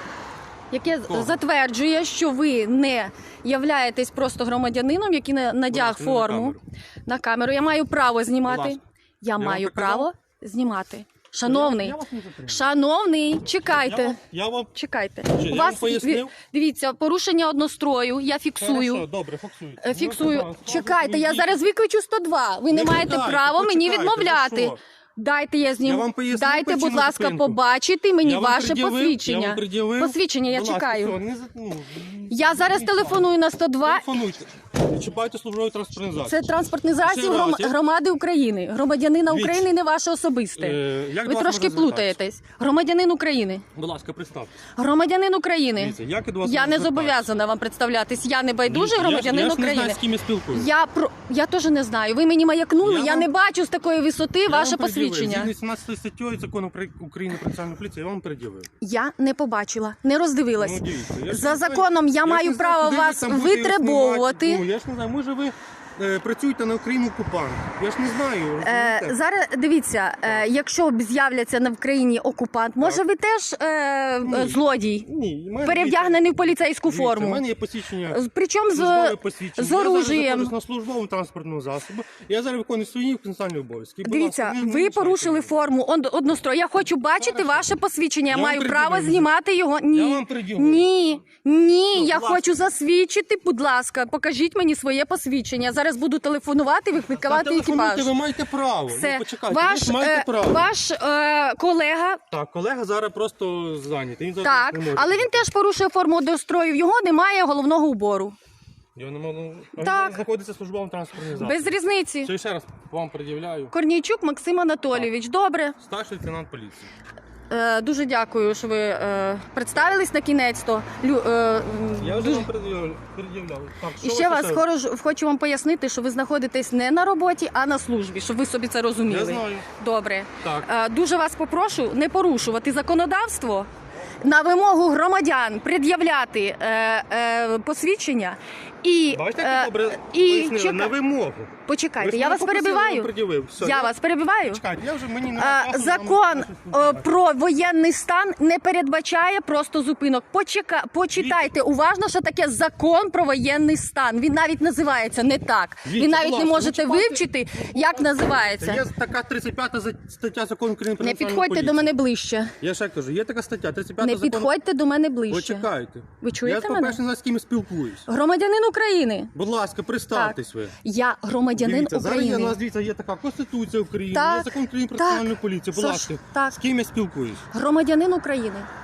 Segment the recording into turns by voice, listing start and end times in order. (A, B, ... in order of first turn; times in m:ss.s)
0:00.7-0:14.2 A
0:01.1-0:01.4 B
0:05.7-0:06.6 B
0:08.4-0:08.8 B
0:09.4-0:10.1 B
0:11.4-0:12.6 B
0:13.6-0:14.7 B
0:14.7-0:19.0 A
0:15.3-0:16.3 B
0:18.6-0:21.6 B
0:19.8-0:31.2 A
0:22.7-0:24.8 B
0:25.8-0:27.6 B
0:28.2-0:37.8 B
0:32.3-0:34.1 A
0:36.2-0:43.6 A
0:39.3-0:39.7 B
0:40.6-0:42.2 B
0:43.7-0:44.6 B
0:44.7-0:55.5 A
0:45.8-0:47.3 B
0:48.6-0:50.7 B
0:52.8-0:53.3 B
0:54.5-0:58.7 B
0:58.8-1:04.6 A
1:00.6-1:09.2 B
1:08.6-1:15.1 A
1:14.2-1:18.2 B
1:15.6-1:17.4 A
1:18.1-1:20.5 A
1:18.7-1:25.5 B
1:24.0-1:38.1 A
1:27.1-1:27.8 B
1:28.3-1:29.3 B
1:29.9-1:30.9 B
1:31.9-1:32.6 B
1:37.0-1:40.7 B
1:38.9-1:42.2 A
1:42.3-1:45.5 B
1:44.4-1:48.4 A
1:48.9-1:53.7 B
1:49.8-1:50.2 A
1:51.4-1:52.3 A
1:53.7-1:55.8 A
1:55.8-1:56.9 B
1:57.5-2:02.5 A
1:59.7-2:00.0 B
2:02.0-2:04.6 B
2:04.0-2:13.7 A
2:09.0-2:09.7 B
2:10.4-2:10.7 B
2:14.2-2:20.9 A
2:19.1-2:23.9 B
2:21.6-2:24.6 A
2:24.4-2:27.1 B
2:25.3-2:38.8 A
2:31.1-2:31.5 B
2:35.8-2:41.9 B
2:41.0-2:42.5 A
2:42.6-2:44.5 B
2:44.0-2:45.7 A
2:45.3-2:48.1 B
2:46.2-2:47.0 A
2:48.1-2:49.3 A
2:49.3-2:50.7 B
2:50.1-2:52.6 A
2:51.5-2:57.5 B
2:54.1-2:56.6 A
2:57.5-2:58.7 A